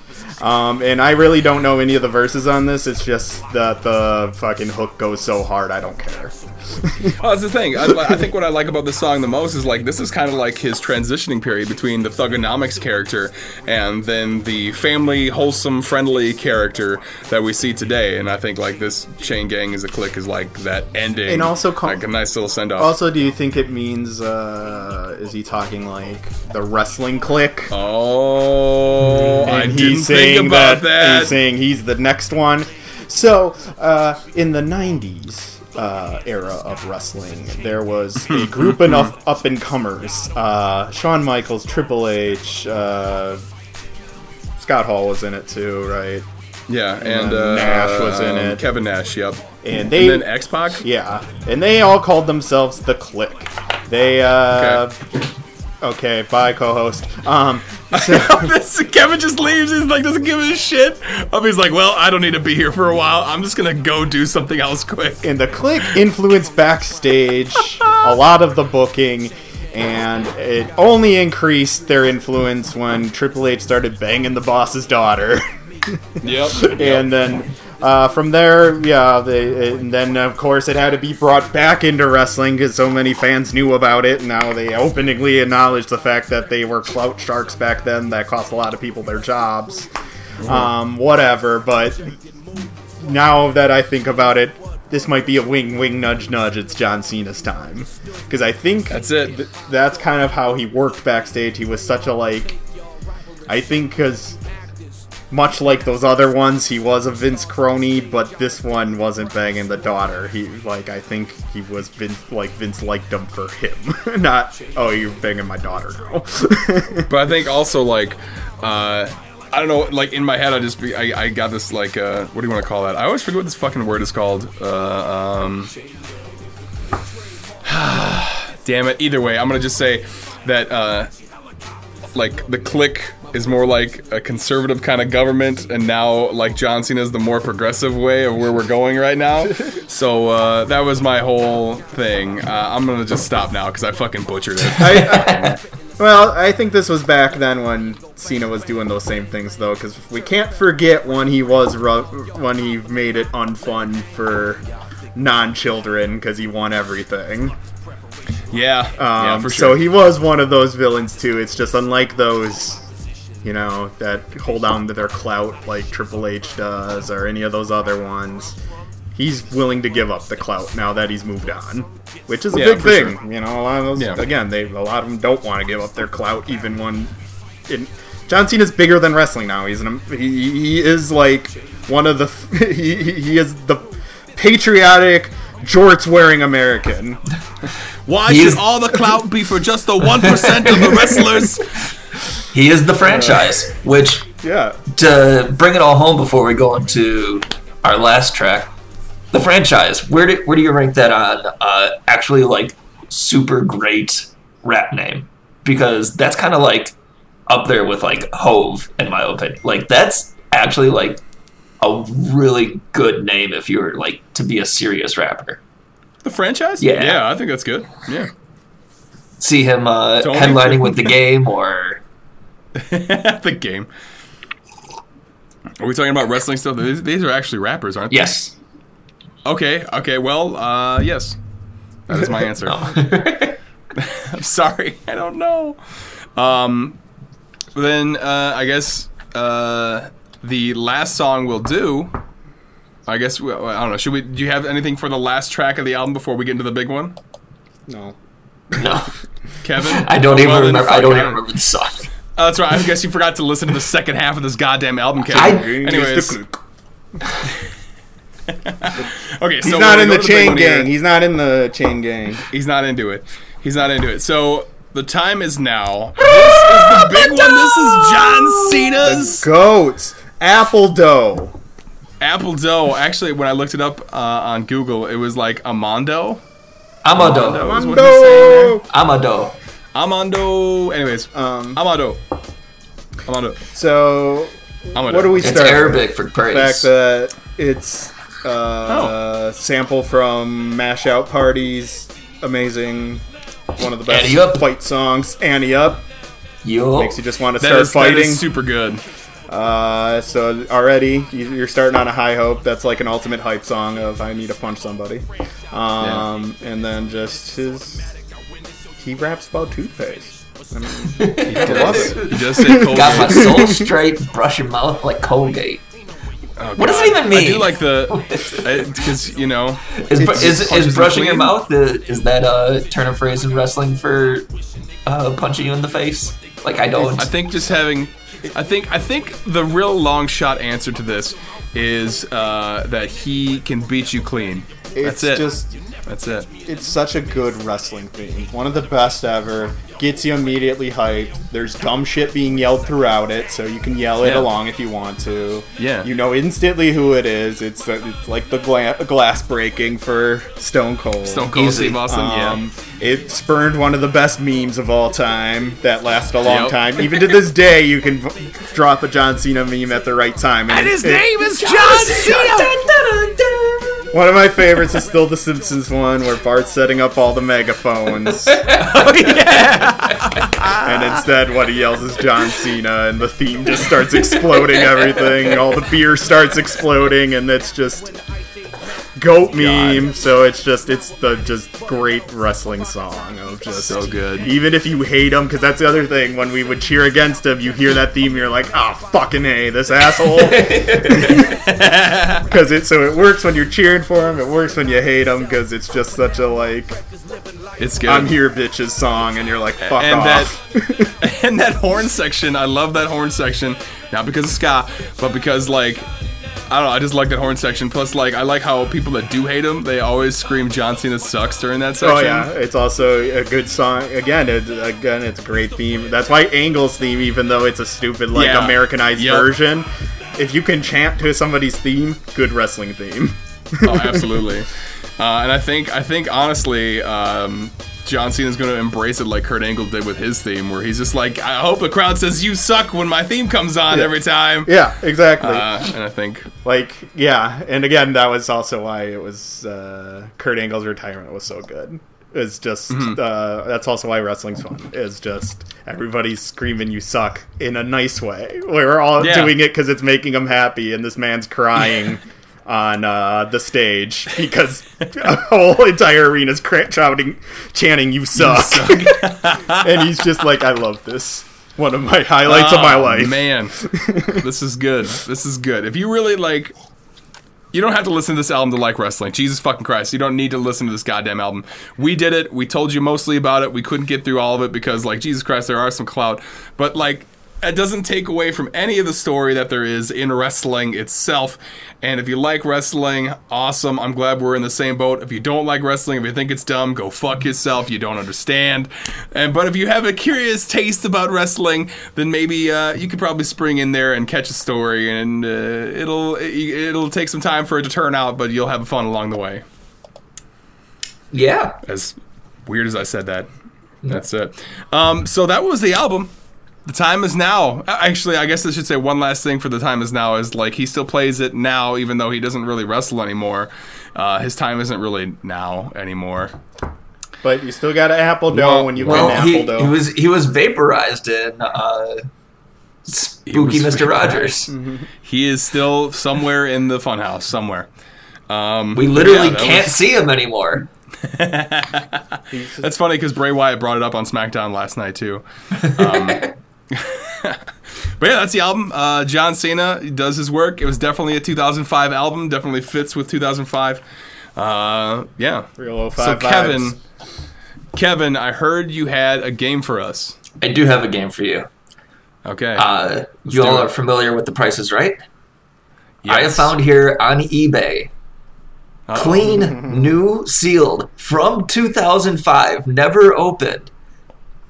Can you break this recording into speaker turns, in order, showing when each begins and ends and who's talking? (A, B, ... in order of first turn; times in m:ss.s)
0:00.4-0:07.2 A
0:07.2-0:23.0 B
0:21.3-0:22.0 A
0:22.8-0:27.7 A
0:27.7-0:31.4 B
0:29.4-0:43.4 A
0:38.2-0:39.1 B
0:44.6-0:46.3 A
0:46.7-0:50.8 B
0:47.0-0:48.6 A
0:49.6-0:50.3 A
0:50.8-0:55.0 A
0:54.5-0:54.8 B
0:55.8-0:58.6 A
0:57.9-1:05.3 B
1:05.2-1:16.0 A
1:07.6-1:08.2 B
1:16.2-1:17.1 B
1:16.5-1:29.9 A
1:30.4-1:30.7 B
1:30.4-1:32.2 A
1:33.0-1:42.6 A
1:38.9-1:39.4 B
1:43.5-1:44.4 A
1:45.3-1:57.1 A
1:57.1-2:05.7 B
2:07.6-2:11.1 B
2:12.2-2:25.6 B
2:24.8-2:25.6 C
2:24.8-2:37.6 A
2:38.5-2:39.8 B
2:39.0-2:42.8 A
2:43.4-2:48.6 A
2:49.2-2:57.1 A
2:52.5-2:53.2 B
2:54.0-2:54.2 B
2:57.7-3:03.8 A
3:04.4-3:07.2 A
3:08.1-3:11.8 B
3:08.3-3:08.6 C
3:10.2-3:11.1 C
3:12.5-3:14.3 C
3:13.0-3:13.6 A
3:14.4-3:14.8 A
3:14.9-3:18.7 C
3:19.3-3:27.0 C
3:27.5-3:31.2 C
3:31.8-3:35.6 C
3:36.2-3:38.3 B
3:36.8-3:37.2 C
3:39.4-3:42.0 C
3:40.2-3:41.1 B
3:42.8-3:43.9 B
3:45.8-3:48.3 B
3:48.1-3:48.5 C
3:49.4-3:51.4 B
3:52.1-3:53.1 B
3:52.1-3:53.6 C
3:54.0-3:55.8 B
3:56.4-3:57.0 B
3:57.8-4:02.2 B
4:03.1-4:07.2 B
4:07.9-4:08.2 A
4:08.7-4:09.2 C
4:09.6-4:11.4 B
4:09.8-4:12.1 C
4:12.4-4:16.4 B
4:15.3-4:16.6 A
4:15.3-4:15.7 C
4:18.5-4:20.9 B
4:19.6-4:22.4 A
4:22.5-4:29.5 B
4:26.4-4:27.4 C
4:29.0-4:31.6 A
4:32.2-4:36.4 B
4:37.0-4:37.7 C
4:37.1-4:38.8 B
4:37.4-4:38.8 A
4:38.9-4:39.6 C
4:40.0-4:42.2 B
4:41.3-4:41.8 A
4:43.3-4:43.6 B
4:43.7-4:53.2 A
4:45.0-4:45.6 B
4:45.4-4:46.9 C
4:48.9-4:49.2 B
4:53.8-4:56.1 A
4:54.1-4:54.6 C
4:56.6-4:57.2 C
4:57.0-4:58.5 A
4:57.6-4:59.0 B
4:59.5-5:08.0 A
5:06.0-5:06.3 B
5:09.0-5:13.9 A
5:11.1-5:15.8 C
5:11.5-5:13.7 B
5:16.6-5:21.6 B
5:16.8-5:19.0 C
5:19.9-5:24.5 C
5:25.0-5:27.3 C
5:27.0-5:35.5 B
5:35.0-5:35.8 A
5:36.1-5:36.5 B
5:36.6-6:01.4 A
5:44.2-5:44.5 B
5:45.8-5:46.1 B
5:51.2-5:52.6 B
5:51.5-5:52.0 C
5:56.4-5:56.8 B
6:00.7-6:02.9 B
6:01.5-6:04.1 C
6:04.1-6:08.7 A
6:08.6-6:09.5 C
6:08.7-6:11.2 B
6:10.8-6:18.1 A
6:19.2-6:31.7 A
6:19.6-6:20.1 B
6:23.8-6:24.5 B
6:30.4-6:31.4 C
6:31.4-6:32.4 B
6:32.4-6:37.0 A
6:37.8-6:38.4 B
6:38.0-6:41.1 A
6:39.8-6:40.5 B
6:41.2-6:46.1 B
6:46.7-6:52.5 B
6:52.0-7:04.5 A
6:58.3-6:59.5 B
7:03.8-7:14.8 B
7:13.9-7:15.7 A
7:15.4-7:16.5 B
7:16.6-7:44.5 A
7:22.9-7:23.2 B
7:29.2-7:29.6 B
7:38.4-7:40.1 B
7:42.5-7:46.7 B
7:47.7-8:19.6 B
8:21.3-8:21.8 C
8:21.8-8:23.5 B
8:24.1-8:26.3 B
8:26.9-8:36.6 B
8:37.4-8:39.9 A
8:38.5-8:39.5 B
8:39.0-8:42.2 C
8:43.1-8:44.7 C
8:43.5-8:44.6 B
8:44.7-8:45.1 A
8:45.2-8:47.9 B
8:48.5-8:50.0 B
8:48.9-8:50.9 C
8:51.2-8:57.6 B
8:52.5-8:52.9 A
8:55.8-8:56.5 C
8:58.2-9:04.0 B
9:04.6-9:07.0 B
9:05.8-9:07.0 A
9:07.9-9:10.4 B
9:10.6-9:11.7 C
9:12.4-9:12.8 B
9:12.8-9:15.2 C
9:13.5-9:13.9 B
9:16.2-9:16.8 B
9:16.3-9:18.1 C
9:19.1-9:19.8 B
9:19.1-9:23.9 C
9:19.5-9:20.2 A